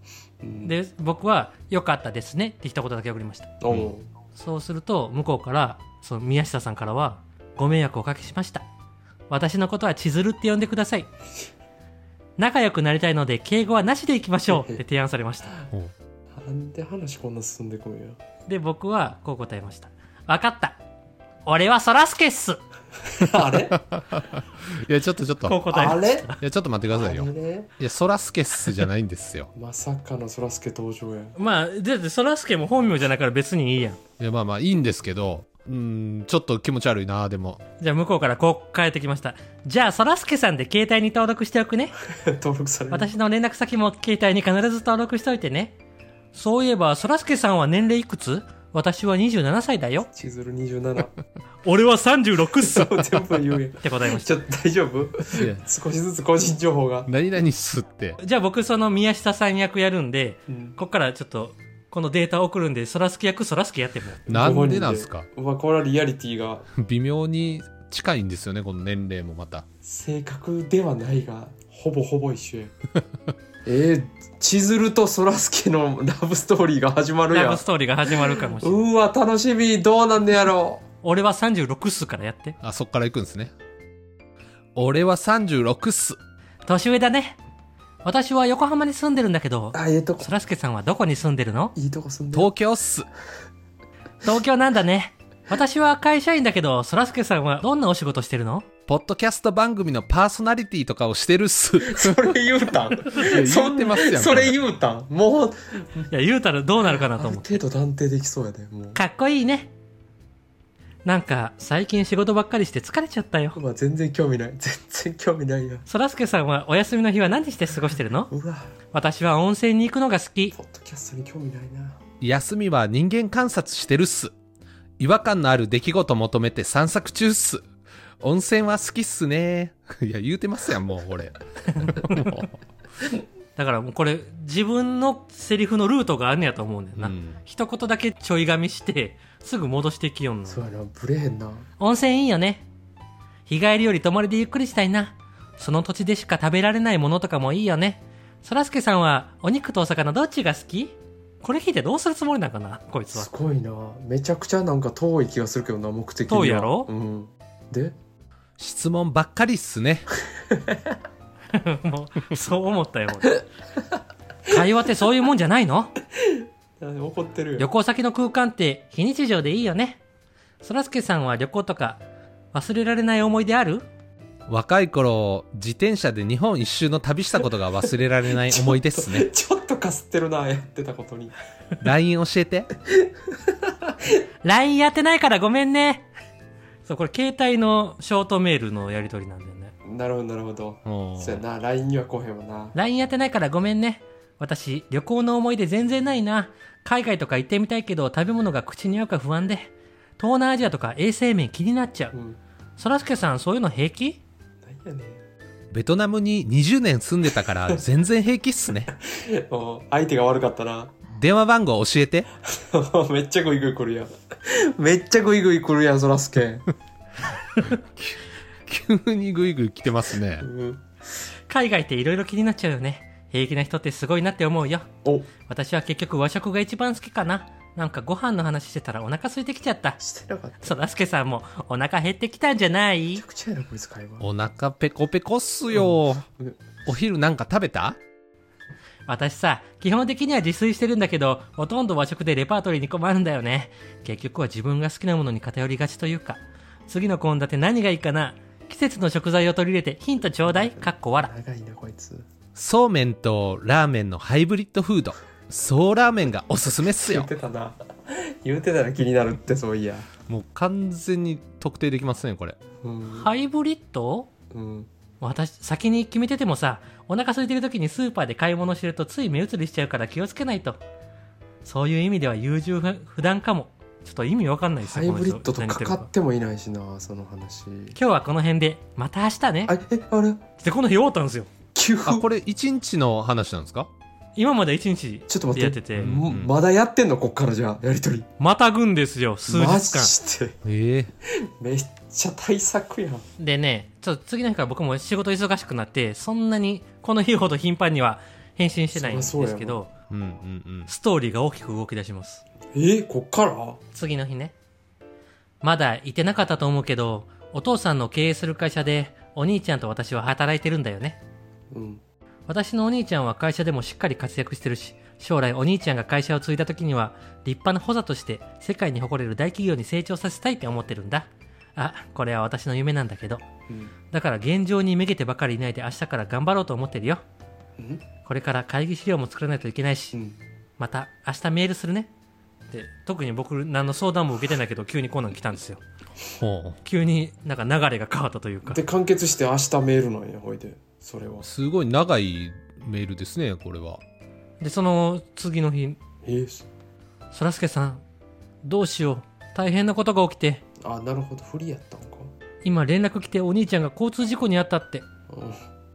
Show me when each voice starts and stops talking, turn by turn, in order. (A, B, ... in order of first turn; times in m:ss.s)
0:00.4-0:00.7 A
0:00.6-0:03.5 B
0:03.6-0:04.1 A
0:04.3-0:08.6 B
0:09.3-0:11.1 B
0:12.4-0:15.6 B
0:14.5-0:14.8 A
0:16.3-0:18.2 A
0:18.5-0:20.8 B
0:21.4-0:22.6 B
0:23.0-0:23.8 A
0:23.7-0:25.6 C
0:25.4-0:26.4 B
0:25.7-0:26.3 A
0:26.4-0:29.5 C
0:26.9-0:27.7 A
0:29.5-0:31.3 A
0:31.4-0:34.0 B
0:34.2-0:37.6 C
0:37.8-0:41.9 B
0:42.1-0:43.1 A
0:42.9-0:45.7 B
0:46.3-0:50.1 B
0:50.1-0:51.1 A
0:51.6-0:53.0 B
0:52.6-0:57.1 A
0:53.8-0:54.3 B
0:55.3-0:55.6 C
0:57.1-0:58.2 C
0:58.2-1:04.2 B
1:00.5-1:00.7 A
1:04.3-1:06.6 A
1:04.3-1:05.3 C
1:06.7-1:09.6 C
1:09.8-1:12.7 A
1:13.6-1:20.8 A
1:17.3-1:18.8 B
1:21.0-1:22.6 B
1:22.6-1:23.5 C
1:24.7-1:26.2 C
1:26.6-1:27.4 B
1:28.0-1:31.7 B
1:29.7-1:30.3 A
1:31.7-1:32.5 A
1:32.3-1:33.1 C
1:34.2-1:38.7 B
1:38.9-1:42.3 C
1:41.8-1:46.1 A
1:43.0-1:44.6 C
1:46.1-1:47.6 B
1:46.9-1:49.0 A
1:48.9-1:49.7 B
1:51.0-1:53.6 B
1:53.5-1:55.8 A
1:55.9-1:58.3 B
1:58.3-1:58.7 A
1:58.9-2:00.5 B
2:00.5-2:02.0 A
2:02.2-2:04.3 C
2:05.0-2:07.6 C
2:08.2-2:12.5 C
2:11.8-2:12.4 B
2:13.6-2:20.6 B
2:17.0-2:17.4 C
2:20.5-2:21.7 A
2:21.8-2:22.7 B
2:23.5-2:33.3 B
2:33.1-2:38.0 A
2:36.3-2:36.9 B
2:38.6-2:40.1 C
2:40.3-2:41.0 A
2:41.5-2:43.4 B
2:44.5-2:45.9 B
2:46.2-2:47.7 A
2:47.6-2:50.0 B
2:50.6-2:53.9 B
2:54.5-2:59.3 C
2:58.3-3:01.4 A
3:01.8-3:02.7 C
3:02.9-3:04.2 A
3:04.4-3:06.1 B
3:06.8-3:09.7 B
3:09.8-3:12.7 A
3:10.8-3:11.4 C
3:12.7-3:22.1 B
3:22.1-3:22.4 A
3:22.8-3:24.2 B
3:24.6-3:25.2 A
3:25.7-3:28.9 C
3:28.9-3:30.9 A
3:31.1-3:32.3 C
3:32.4-3:36.6 A
3:37.6-3:40.5 C
3:40.4-3:40.9 A
3:41.5-3:44.9 B
3:45.0-3:45.3 A
3:45.4-3:50.0 B
3:50.0-3:50.8 A
3:50.6-3:53.2 B
3:53.2-3:54.2 A
3:54.2-3:56.2 C
3:55.7-3:56.6 A
3:56.8-3:58.0 C
3:59.1-4:11.3 B
4:10.4-4:12.3 A
4:12.6-4:17.3 C
4:17.0-4:20.1 A
4:20.3-4:22.6 C
4:22.8-4:23.3 A
4:23.1-4:24.3 B
4:24.5-4:24.9 A
4:25.2-4:30.8 B
4:31.6-4:36.1 B
4:34.8-4:38.0 A
4:37.9-4:39.8 B
4:39.7-4:40.4 A
4:40.6-4:41.5 B
4:41.7-4:42.2 A
4:42.0-4:43.9 C
4:44.4-4:46.1 B
4:45.3-4:48.3 A
4:46.0-4:46.5 C
4:48.4-4:50.1 B
4:49.5-4:50.6 A
4:50.6-4:51.1 C
4:51.2-4:53.2 A
4:53.4-4:59.9 B
4:58.9-4:59.8 A
5:00.1-5:00.9 C
5:00.9-5:02.4 B
5:02.7-5:03.8 A
5:03.9-5:04.5 B
5:05.6-5:11.2 B
5:11.7-5:12.0 A
5:12.5-5:23.4 B
5:23.7-5:23.9 A
5:24.1-5:27.2 B
5:27.8-5:28.0 A
5:28.2-5:30.2 B
5:30.1-5:30.4 A
5:30.8-5:32.1 B
5:32.7-5:35.8 B
5:36.4-5:36.8 C
5:36.8-5:38.8 B
5:38.6-5:41.4 A
5:41.4-5:44.0 C
5:44.6-5:46.0 B
5:46.2-5:46.7 A
5:47.3-5:48.0 B
5:48.6-5:50.6 B
5:50.8-5:52.3 A
5:52.6-5:55.0 B
5:55.3-5:55.6 A